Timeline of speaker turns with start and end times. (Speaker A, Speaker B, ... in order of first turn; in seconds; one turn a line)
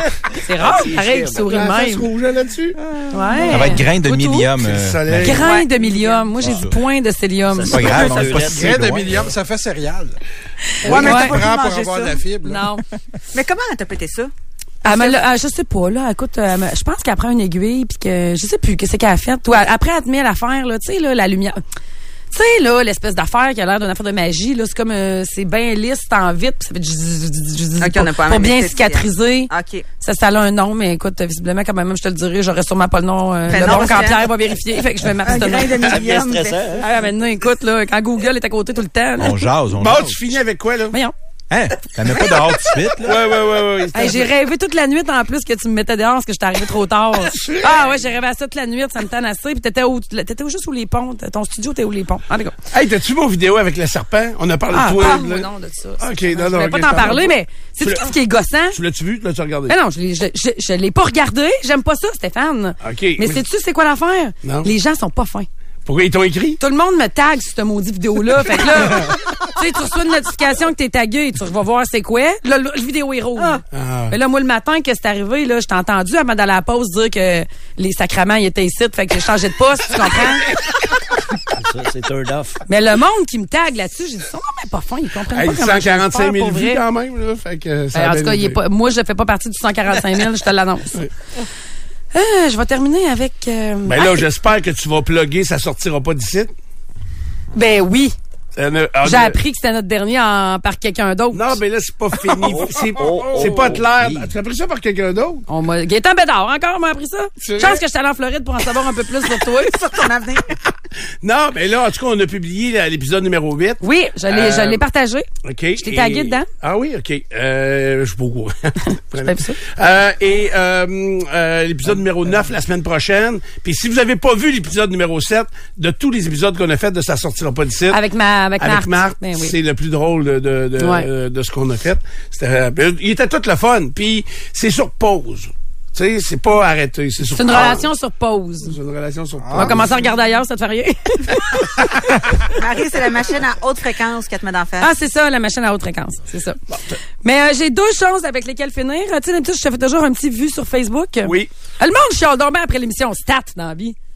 Speaker A: 0.4-2.1
Speaker B: 0.5-2.8
Speaker A: 3.1-4.5
Speaker C: 3.5-5.4
Speaker B: 4.6-5.5
Speaker A: 5.2-7.9
Speaker D: 5.3-6.3
Speaker C: 6.4-6.8
Speaker E: 7.5-9.3
Speaker C: 7.7-9.3
Speaker F: 8.1-10.2
Speaker A: 10.7-11.4
Speaker F: 10.8-12.7
Speaker D: 10.8-12.2
Speaker A: 12.4-12.8
Speaker D: 13.3-14.3
Speaker D: 14.8-15.2
Speaker A: 14.8-21.6
Speaker A: 22.3-35.8
Speaker D: 27.8-29.8
Speaker D: 33.5-34.3
Speaker D: 35.2-36.8
Speaker E: 35.8-36.8
Speaker A: 36.8-39.4
Speaker C: 39.2-40.2
Speaker B: 39.8-41.0
Speaker C: 41.5-43.3
Speaker B: 43.0-44.3
Speaker A: 43.9-52.5
Speaker B: 47.2-48.0
Speaker B: 52.7-55.5
Speaker A: 54.7-58.8
Speaker B: 56.0-58.1
Speaker B: 58.7-59.8
Speaker A: 59.7-65.5
Speaker B: 62.8-63.4
Speaker B: 64.4-64.7
Speaker B: 65.8-66.6
Speaker A: 66.6-80.5
Speaker B: 73.7-74.2
Speaker E: 81.5-82.6
Speaker A: 82.7-86.8
Speaker B: 85.3-88.6
Speaker A: 87.9-91.0
Speaker A: 92.1-94.2
Speaker B: 93.8-96.5
Speaker A: 97.5-98.1
Speaker B: 98.5-99.4
Speaker A: 99.0-101.6
Speaker B: 101.3-105.4
Speaker E: 102.4-104.3
Speaker A: 105.5-109.8
Speaker B: 107.4-107.8
Speaker D: 109.6-110.5
Speaker B: 111.2-114.8
Speaker A: 113.8-116.5
Speaker B: 115.4-128.0
Speaker A: 119.2-119.6
Speaker A: 127.9-129.5
Speaker B: 128.6-137.9
Speaker A: 130.8-131.1
Speaker A: 137.3-138.7
Speaker B: 138.6-139.9
Speaker F: 139.4-139.9
Speaker A: 139.5-142.2
Speaker D: 142.5-144.9
Speaker A: 144.8-146.6
Speaker B: 146.7-147.0
Speaker A: 147.2-153.9
Speaker B: 151.2-151.5